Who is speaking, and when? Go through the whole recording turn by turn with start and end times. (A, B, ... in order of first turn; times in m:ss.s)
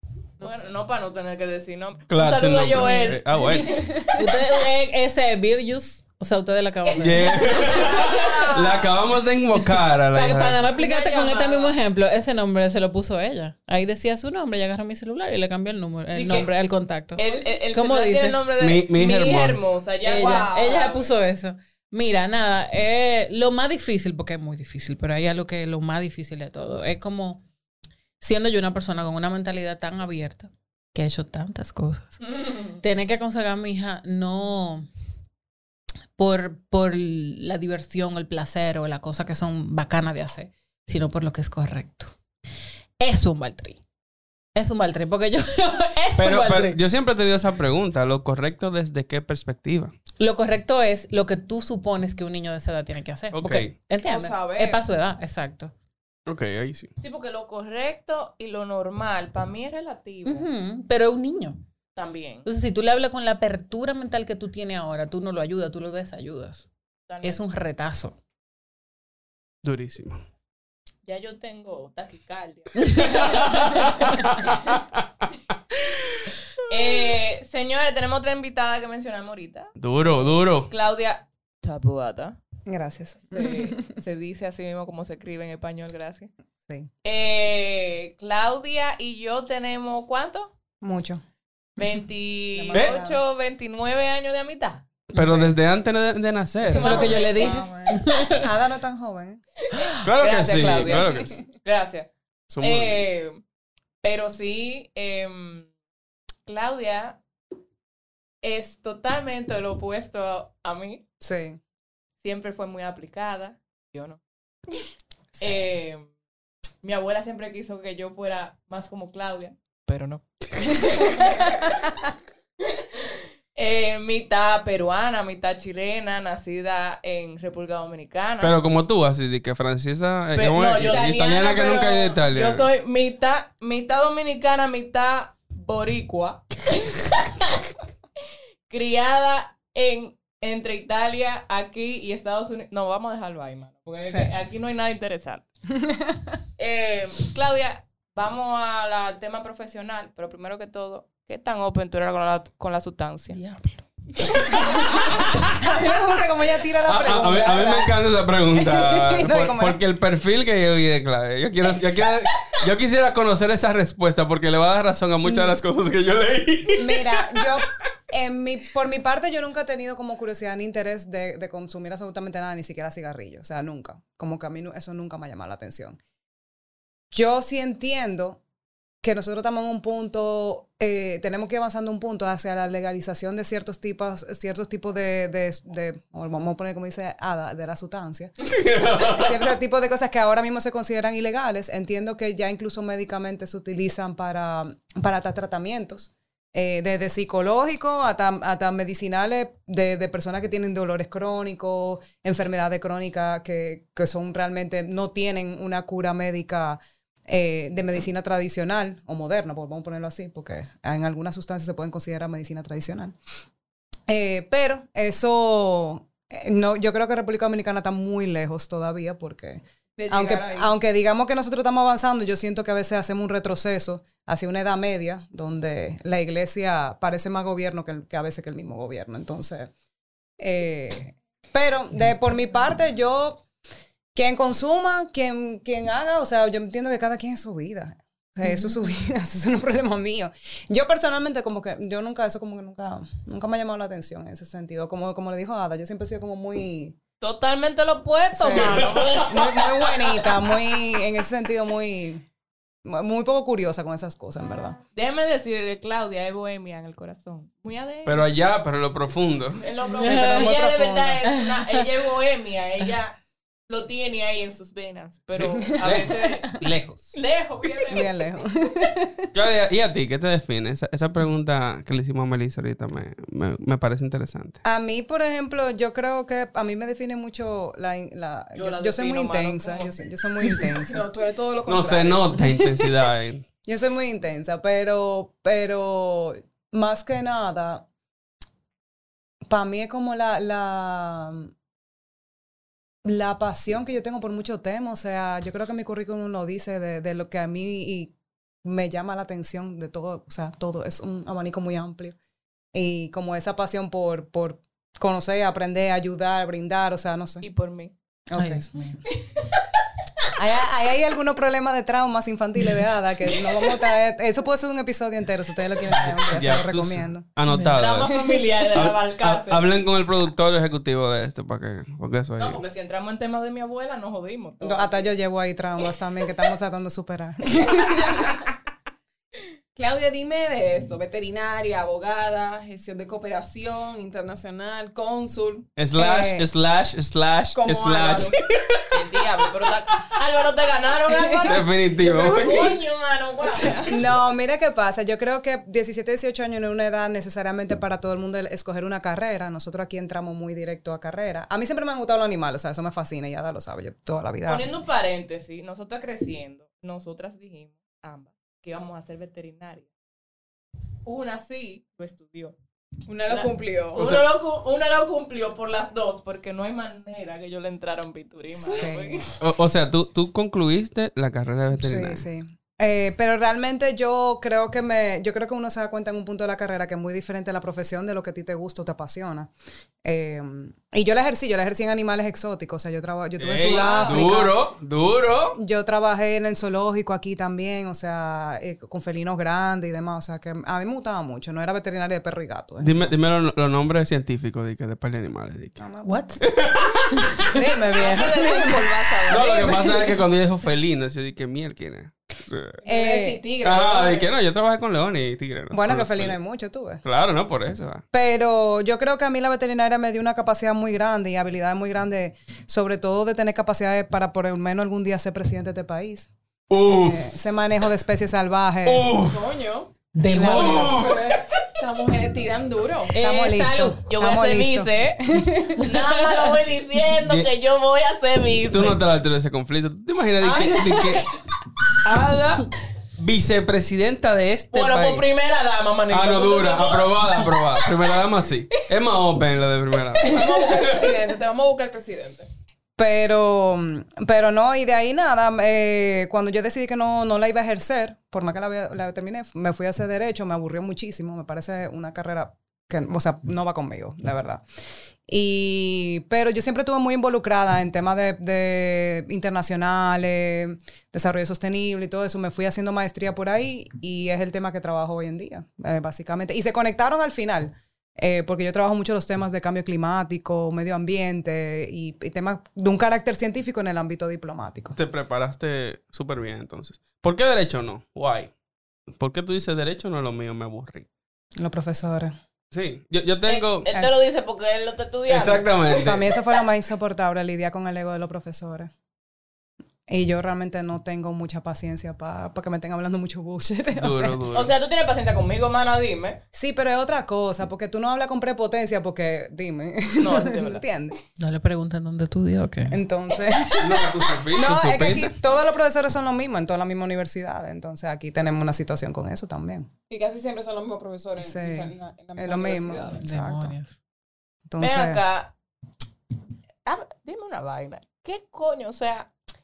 0:00.4-0:00.7 A
0:00.4-0:03.9 B
0:02.1-0:03.9 C
0:04.1-0:08.1 D
0:07.0-0:10.6 C
0:07.3-0:09.0 B
0:10.1-0:18.4 D
0:10.7-0:11.7 B
0:16.1-0:16.5 B
0:17.2-0:21.1 B
0:18.6-0:19.7 C
0:20.0-0:27.4 D
0:20.1-0:20.8 A
0:28.2-0:34.9 D
0:36.2-0:42.1 D
0:43.0-0:43.8 D
0:44.5-0:46.8 D
0:46.2-0:49.9 C
0:50.2-0:55.7 D
0:53.3-0:53.7 C
0:54.0-0:54.8 A
0:56.3-0:56.9 C
0:57.0-1:00.5 B
1:00.2-1:01.6 D
1:01.9-1:02.5 B
1:02.4-1:06.6 D
1:07.1-1:07.4 B
1:07.2-1:08.2 D
1:09.6-1:10.2 C
1:11.0-1:14.5 B
1:13.0-1:15.0 C
1:16.7-1:19.7 B
1:19.8-1:20.7 C
1:20.7-1:22.4 B
1:22.6-1:23.8 E
1:23.3-1:26.3 B
1:27.0-1:30.5 B
1:30.8-1:31.2 E
1:31.8-1:34.8 B
1:32.5-1:33.2 E
1:35.1-1:35.5 D
1:35.1-1:37.2 C
1:36.7-1:38.2 B
1:36.7-1:38.5 D
1:36.8-1:38.0 A
1:38.3-1:39.4 E
1:39.7-1:43.4 B
1:40.0-1:41.4 C
1:42.5-1:43.0 C
1:44.0-1:45.7 B
1:46.4-1:47.2 B
1:48.4-1:51.0 B
1:51.2-1:51.6 E
1:52.2-1:54.2 B
1:55.4-1:56.1 B
1:56.8-2:01.9 B
2:03.6-2:08.6 B
2:08.4-2:12.7 C
2:10.3-2:17.5 B
2:18.7-2:25.4 B
2:24.0-2:24.3 E
2:25.7-2:26.3 E
2:26.6-2:33.4 B
2:33.3-2:33.8 D
2:34.4-2:35.1 B
2:34.6-2:37.9 E
2:35.1-2:35.5 C
2:36.8-2:47.6 C
2:38.5-2:39.8 E
2:45.2-2:45.6 E
2:46.8-2:56.0 E
2:57.1-2:58.4 E
2:59.0-3:08.5 E
3:08.4-3:09.4 C
3:09.0-3:33.2 E
3:34.1-3:49.7 E
3:40.0-3:40.7 A
3:50.4-3:53.4 E
3:54.1-4:07.0 E
4:07.2-4:10.2 B
4:08.3-4:12.2 E
4:08.5-4:09.4 C
4:12.8-4:14.8 E
4:14.9-4:18.3 B
4:18.0-4:19.6 C
4:19.6-4:23.2 B
4:20.0-4:21.2 E
4:20.0-4:20.5 D
4:21.3-4:21.9 D
4:23.7-4:28.4 B
4:25.3-4:27.2 C
4:27.9-4:29.3 E
4:29.3-4:34.6 C
4:34.6-4:41.1 E
4:38.5-4:39.9 B
4:40.6-4:42.4 A
4:41.7-4:43.4 C
4:43.6-4:47.8 E
4:49.5-4:51.5 E
4:53.0-5:02.2 E
5:02.7-5:07.4 E
5:07.4-5:07.9 B
5:08.3-5:09.0 E
5:08.4-5:09.0 D
5:09.3-5:09.6 B
5:10.3-5:17.2 E
5:16.1-5:22.6 C
5:17.5-5:17.8 D
5:17.7-5:19.7 B
5:22.4-5:25.1 B
5:24.6-5:28.3 E
5:29.7-5:35.7 A
5:35.8-5:39.7 C
5:36.0-5:36.4 E
5:37.5-5:38.4 A
5:38.9-5:44.0 B
5:41.1-5:41.6 E
5:41.4-5:42.8 C
5:43.5-5:43.9 C
5:43.9-5:54.6 E
5:54.4-5:59.9 B
6:01.0-6:02.6 B
6:03.0-6:04.1 A
6:03.3-6:09.3 B
6:04.0-6:04.3 C
6:08.6-6:08.9 A
6:08.7-6:09.2 E
6:09.4-6:12.2 C
6:11.8-6:19.5 E
6:20.0-6:24.6 E
6:23.4-6:25.6 C
6:23.8-6:24.2 A
6:25.6-6:33.1 E
6:32.8-6:35.8 C
6:35.8-6:36.5 E
6:36.0-6:36.4 D
6:36.4-6:37.5 C
6:37.4-6:39.8 E
6:37.9-6:40.1 B
6:39.3-6:42.8 C
6:42.8-6:44.3 A
6:42.8-6:43.4 E
6:43.6-6:46.4 C
6:45.7-6:47.0 E
6:47.0-6:48.0 C
6:48.1-6:56.3 E
6:56.7-6:57.3 C
6:56.8-6:59.1 E
6:58.8-6:59.5 C
6:59.2-6:59.9 A
7:00.1-7:01.0 D
7:00.2-7:01.1 E
7:00.5-7:01.4 C
7:00.8-7:03.1 A
7:03.1-7:04.0 D
7:03.2-7:05.8 E
7:04.1-7:05.2 B
7:05.8-7:09.0 B
7:05.8-7:06.6 D
7:07.2-7:07.5 C
7:08.7-7:11.3 C
7:10.4-7:10.8 A
7:12.0-7:15.2 C
7:14.7-7:18.2 B
7:16.1-7:21.1 C
7:20.2-7:22.5 A
7:23.0-7:34.6 E
7:35.3-7:55.0 E
7:54.9-7:58.5 C
7:59.1-8:01.1 C
8:01.6-8:02.3 E
8:02.7-8:03.9 C
8:03.5-8:06.2 B
8:05.3-8:06.2 C
8:05.9-8:08.9 E
8:10.1-8:14.4 E
8:14.0-8:14.7 C
8:14.5-8:16.4 B
8:16.5-8:21.2 E
8:20.2-8:20.8 B
8:21.4-8:23.0 D
8:22.9-8:29.9 E
8:23.8-8:25.3 C
8:30.1-8:33.2 A
8:31.4-8:33.7 E
8:33.2-8:33.9 D
8:34.7-8:35.2 E
8:34.8-8:35.5 B
8:36.8-8:39.3 B